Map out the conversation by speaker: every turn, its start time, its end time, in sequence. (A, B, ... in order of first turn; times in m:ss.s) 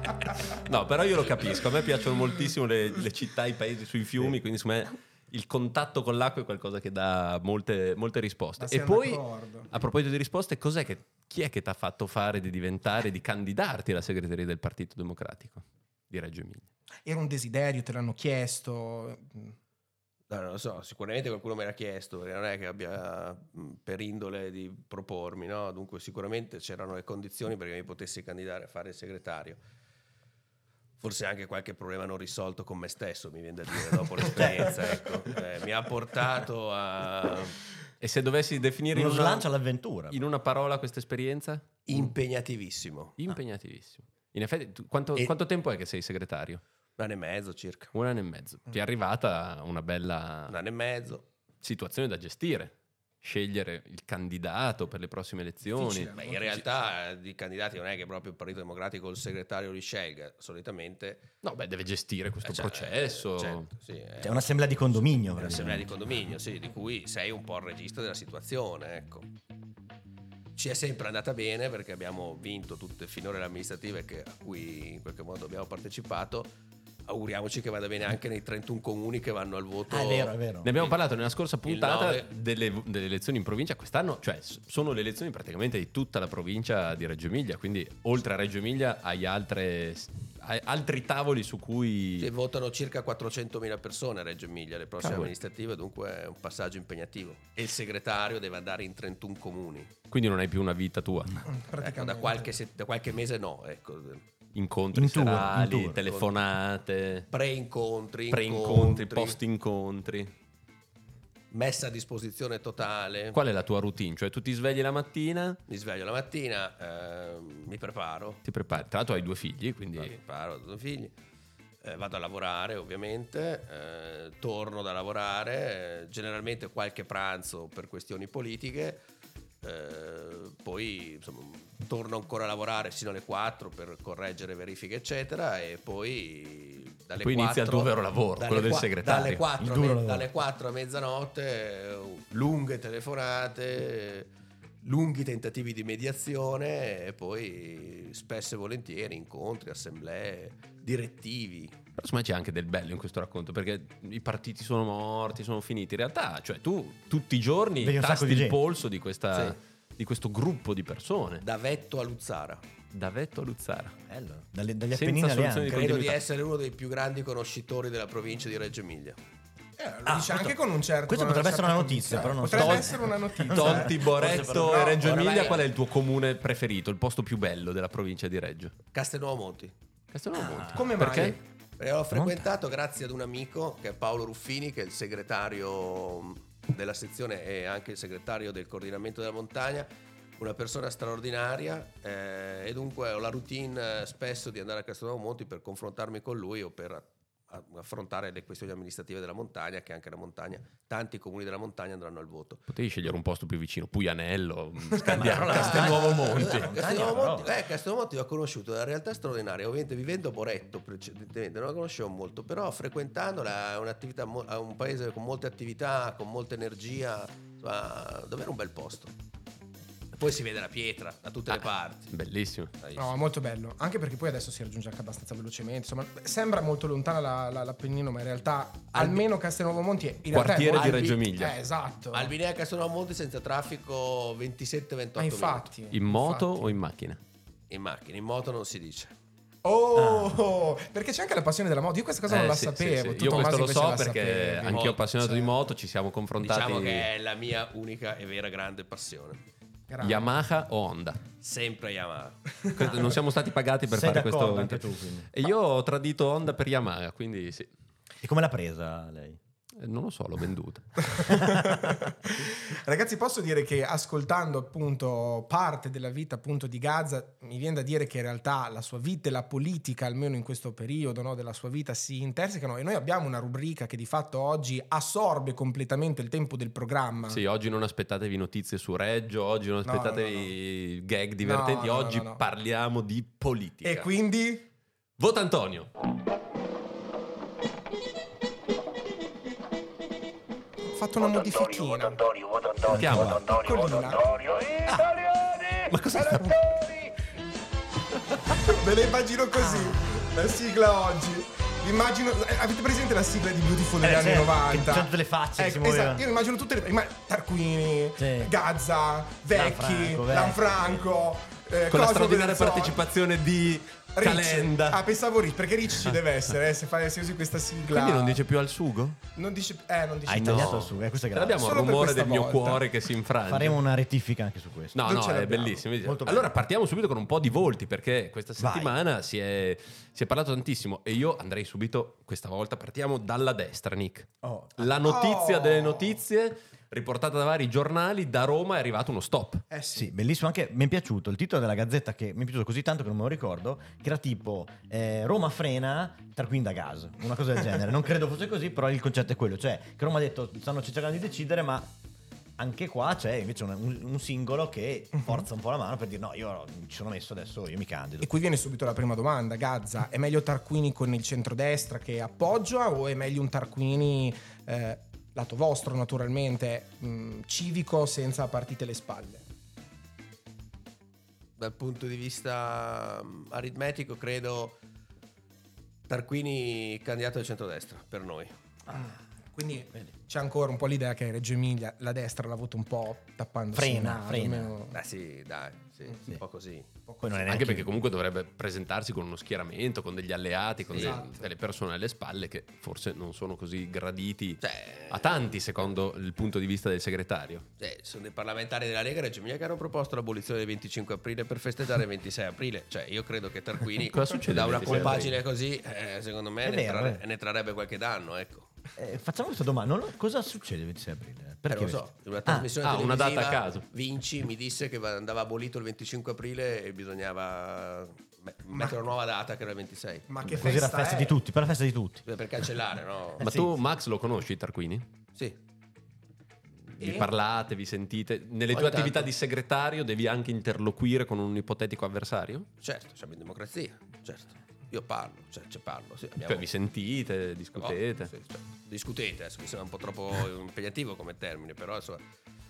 0:00.5-0:16.7 A
0:08.6-0:09.7 B
0:17.0-0:19.5 B
0:20.3-0:29.6 C
0:31.0-0:37.5 C
0:34.4-0:34.7 D
0:38.0-0:39.5 A
0:38.9-0:40.2 D
0:40.1-0:41.7 A
0:41.8-0:43.1 C
0:43.2-0:46.6 A
0:47.0-0:47.9 C
0:47.9-0:50.6 A
0:50.5-0:51.2 C
0:51.6-0:56.2 A
0:55.7-0:56.8 B
0:56.0-1:01.3 C
1:01.4-1:03.7 A
1:02.4-1:09.3 C
1:04.2-1:05.9 D
1:10.5-1:16.5 C
1:17.0-1:20.9 C
1:19.9-1:20.8 D
1:20.6-1:32.3 A
1:21.6-1:22.3 C
1:32.2-1:39.9 C
1:35.0-1:35.3 A
1:40.1-1:41.4 A
1:41.4-1:42.5 B
1:41.8-1:44.2 C
1:44.5-1:47.3 A
1:44.9-1:46.0 D
1:46.0-1:46.3 C
1:47.3-1:49.4 C
1:48.3-1:50.3 A
1:51.5-1:53.4 C
1:53.3-1:55.6 A
1:55.7-1:58.4 C
1:58.4-2:00.1 A
2:00.0-2:01.1 C
2:01.8-2:09.0 C
2:09.6-2:24.3 C
2:17.2-2:19.4 A
2:19.6-2:20.3 D
2:24.8-2:31.8 C
2:32.0-2:41.4 A
2:37.8-2:38.6 D
2:41.4-2:42.6 C
2:42.9-2:44.0 A
2:44.1-2:46.0 D
2:44.9-2:46.2 A
2:45.7-2:49.2 C
2:49.8-2:55.0 B
2:50.0-2:55.4 D
2:52.5-2:52.8 A
2:53.5-2:58.7 A
2:55.0-2:55.6 C
2:58.9-2:59.7 C
3:00.1-3:01.4 A
3:00.3-3:01.0 D
3:00.7-3:01.4 B
3:01.8-3:22.6 C
3:02.1-3:02.5 D
3:22.7-3:27.0 A
3:25.0-3:27.6 D
3:25.3-3:39.1 C
3:40.1-3:42.1 C
3:41.5-3:42.7 A
3:42.8-3:43.1 C
3:43.0-3:52.3 B
3:48.9-3:49.2 C
3:50.3-3:51.6 A
3:50.7-3:51.2 C
3:52.1-3:55.6 C
3:55.2-3:56.7 B
3:55.9-3:57.2 A
3:57.7-3:59.1 C
3:59.6-4:05.5 B
3:59.9-4:00.4 D
4:02.3-4:07.1 A
4:04.7-4:05.0 C
4:06.4-4:09.4 C
4:09.9-4:10.3 B
4:10.0-4:11.2 A
4:11.4-4:12.6 C
4:12.6-4:12.9 B
4:12.7-4:17.7 A
4:13.9-4:15.3 D
4:18.2-4:19.4 D
4:19.8-4:21.1 A
4:21.1-4:37.4 B
4:21.5-4:21.8 D
4:37.3-4:44.1 A
4:39.8-4:40.5 B
4:41.4-4:42.4 B
4:43.8-4:44.6 B
4:45.2-4:45.9 A
4:50.8-4:52.5 B
4:52.8-4:53.4 A
4:52.8-4:53.5 D
4:53.2-4:54.4 B
4:54.8-4:55.2 D
4:55.9-4:57.0 A
4:58.6-5:13.0 B
4:59.6-5:00.2 D
5:04.0-5:06.2 D
5:08.2-5:08.5 D
5:09.5-5:11.0 D
5:11.9-5:15.0 A
5:14.2-5:18.4 B
5:17.9-5:19.2 A
5:19.4-5:20.8 B
5:20.3-5:21.9 D
5:20.4-5:23.8 A
5:21.6-5:22.8 B
5:23.4-5:25.1 D
5:24.9-5:39.6 A
5:25.0-5:25.8 B
5:26.0-5:26.6 D
5:28.6-5:28.9 D
5:34.4-5:35.0 D
5:35.0-5:36.2 B
5:39.7-5:40.1 B
5:39.9-5:51.9 D
5:52.6-5:58.3 D
5:58.2-6:09.4 B
6:11.6-6:14.8 C
6:16.1-6:18.5 C
6:18.9-6:25.0 B
6:23.7-6:24.7 D
6:24.9-6:26.9 C
6:27.1-6:27.4 B
6:27.2-6:27.9 D
6:27.5-6:37.6 A
6:30.9-6:31.5 B
6:34.6-6:35.9 C
6:37.8-6:48.7 C
6:44.1-6:45.3 A
6:44.8-6:45.3 D
6:46.6-6:47.2 D
6:49.0-6:52.7 D
6:51.7-7:00.3 C
6:52.8-6:53.8 A
6:58.7-6:59.0 B
7:00.3-7:01.4 B
7:00.4-7:02.2 D
7:02.2-7:03.5 C
7:03.4-7:03.7 D
7:03.4-7:05.0 A
7:06.9-7:12.7 A
7:07.0-7:07.3 B
7:08.7-7:09.3 C
7:12.8-7:16.7 C
7:16.4-7:18.3 A
7:17.8-7:22.2 C